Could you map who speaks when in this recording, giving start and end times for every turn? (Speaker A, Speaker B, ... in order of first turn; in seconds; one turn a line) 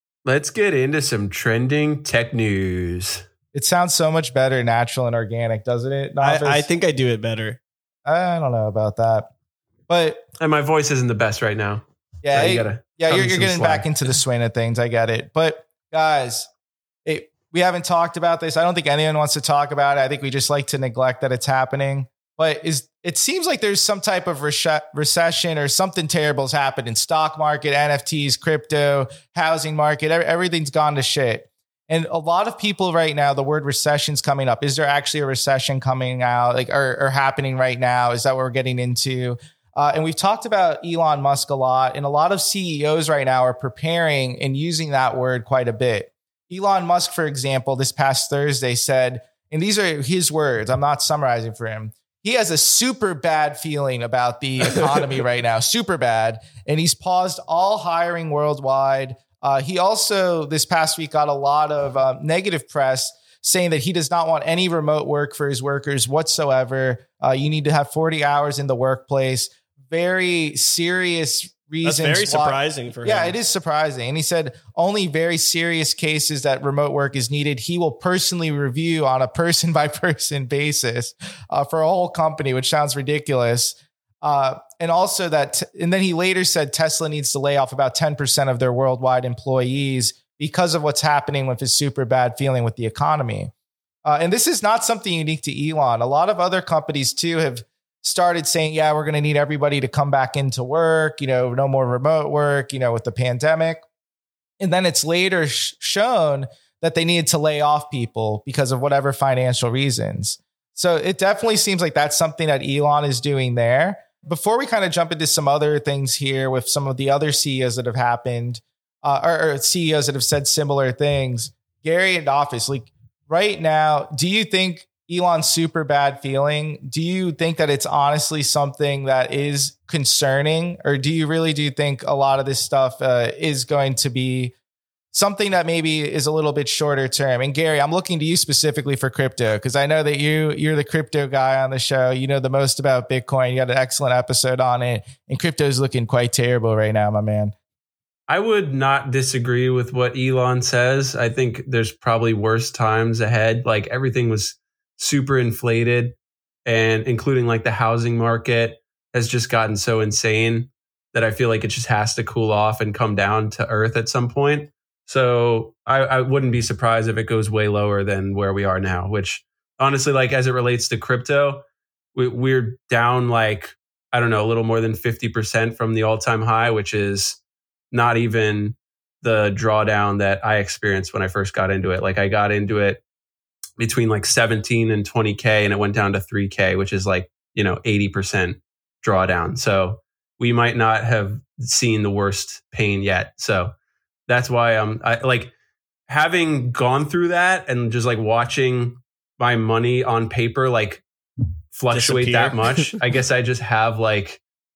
Speaker A: 0.2-3.2
Speaker B: 3.5-6.7
Speaker C: 6.2-7.6
Speaker B: 8.1-9.3
Speaker B: 9.9-10.2
Speaker A: 10.4-14.1
Speaker B: 12.2-16.5
Speaker B: 17.1-93.5
Speaker C: 71.8-73.3
Speaker B: 94.0-103.8
Speaker B: 104.6-134.6
Speaker B: 135.1-147.5
Speaker A: 148.3-171.6
Speaker A: 172.2-177.4
Speaker A: 177.9-183.0
Speaker A: 183.8-193.7
Speaker A: 194.3-195.5
Speaker A: 196.1-201.0
Speaker A: 201.7-204.4
Speaker C: 201.9-203.0